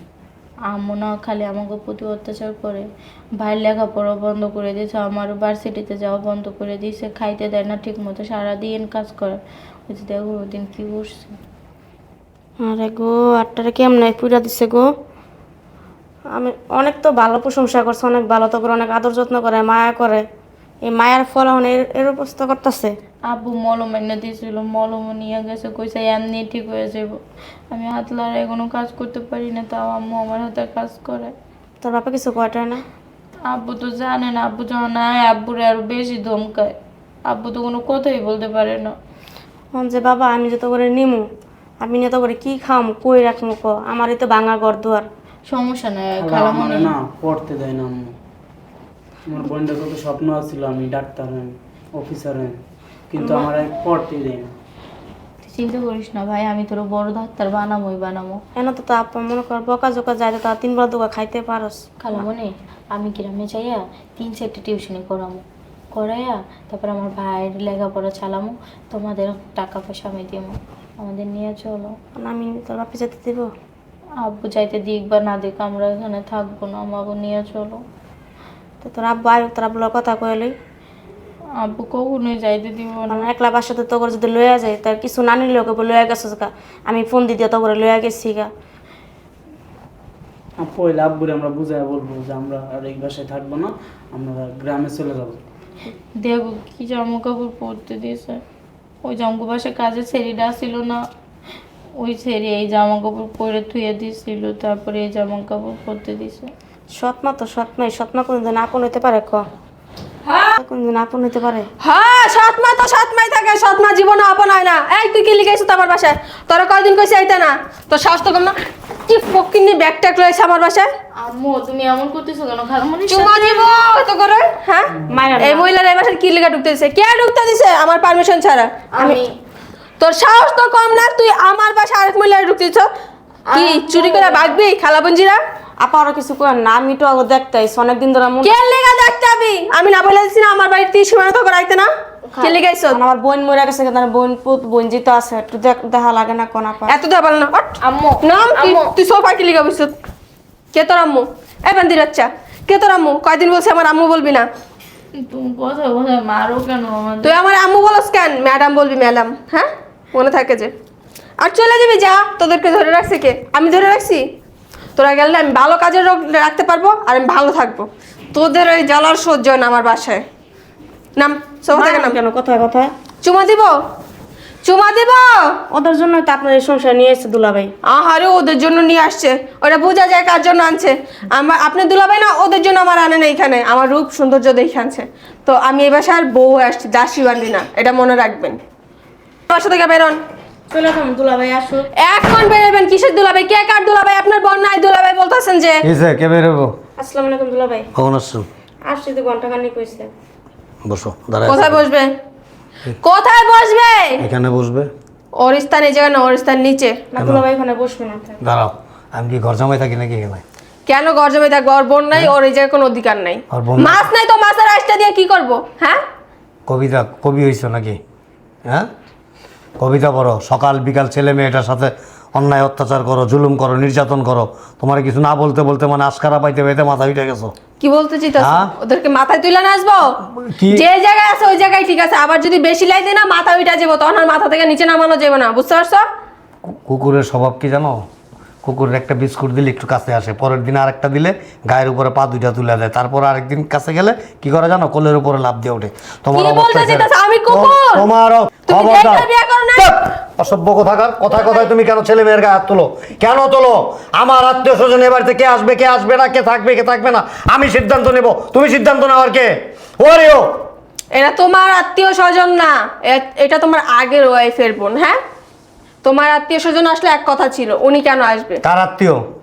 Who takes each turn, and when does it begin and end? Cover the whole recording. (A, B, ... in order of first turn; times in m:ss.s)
0:00.7-0:02.8 A
0:03.4-0:11.4 A
0:12.6-0:14.9 B
0:16.3-0:20.2 B
0:20.8-0:23.0 B
0:23.3-0:27.1 A
0:27.7-0:31.3 A
0:31.8-0:32.8 B
0:33.5-0:36.7 A
0:37.3-0:38.9 A
0:39.7-0:41.2 B
0:41.8-0:45.1 B
0:45.5-0:46.9 A
0:46.2-0:48.1 C
0:49.2-0:52.6 C
0:53.1-0:54.5 C
0:53.2-0:53.5 A
0:55.4-0:58.4 A
0:58.6-1:01.8 B
1:02.0-1:11.9 A
1:12.2-1:13.5 B
1:14.2-1:17.8 A
1:18.8-1:20.5 B
1:21.6-1:23.2 A
1:23.1-1:28.5 B
1:30.6-1:35.4 C
1:36.2-1:38.4 A
1:39.0-1:41.0 A
1:42.0-1:46.5 A
1:47.0-1:49.4 B
1:50.2-1:50.6 D
1:50.6-1:51.7 B
1:51.8-2:00.9 D
2:01.2-2:03.7 A
2:03.1-2:08.7 D
2:05.1-2:05.7 B
2:09.0-2:09.2 A
2:09.0-2:09.2 B
2:10.0-2:12.9 D
2:13.5-2:14.6 A
2:13.5-2:15.4 D
2:15.8-2:18.6 B
2:18.4-2:21.9 D
2:22.3-2:26.9 B
2:22.4-2:23.0 D
2:26.8-2:29.9 D
2:27.8-2:28.9 A
2:30.7-2:34.5 D
2:35.2-2:37.4 A
2:37.2-2:40.7 D
2:41.4-2:44.2 D
2:45.0-2:50.2 D
2:51.2-2:52.2 D
2:51.7-2:52.9 B
2:53.2-2:53.7 D
2:54.6-2:55.5 D
2:55.7-2:57.7 B
2:57.9-3:08.6 D
3:09.5-3:10.2 D
3:10.7-3:11.8 B
3:12.0-3:15.8 D
3:15.8-3:16.7 E
3:17.0-3:17.9 B
3:17.9-3:18.5 E
3:18.8-3:20.1 B
3:20.8-3:21.8 E
3:21.5-3:22.1 D
3:23.0-3:24.2 D
3:24.2-3:24.9 E
3:25.4-3:27.0 D
3:27.1-3:28.4 B
3:27.2-3:27.4 E
3:28.4-3:30.4 E
3:30.9-3:36.0 D
3:33.5-3:34.0 E
3:36.7-3:38.0 E
3:39.8-3:47.5 E
3:47.8-3:56.0 D
3:48.4-3:48.7 E
3:50.4-3:50.8 E
3:56.6-3:58.0 E
3:58.6-4:20.6 E
4:06.3-4:08.0 D
4:08.7-4:09.9 D
4:21.1-4:25.2 D
4:26.0-4:28.6 D
4:28.6-4:29.2 E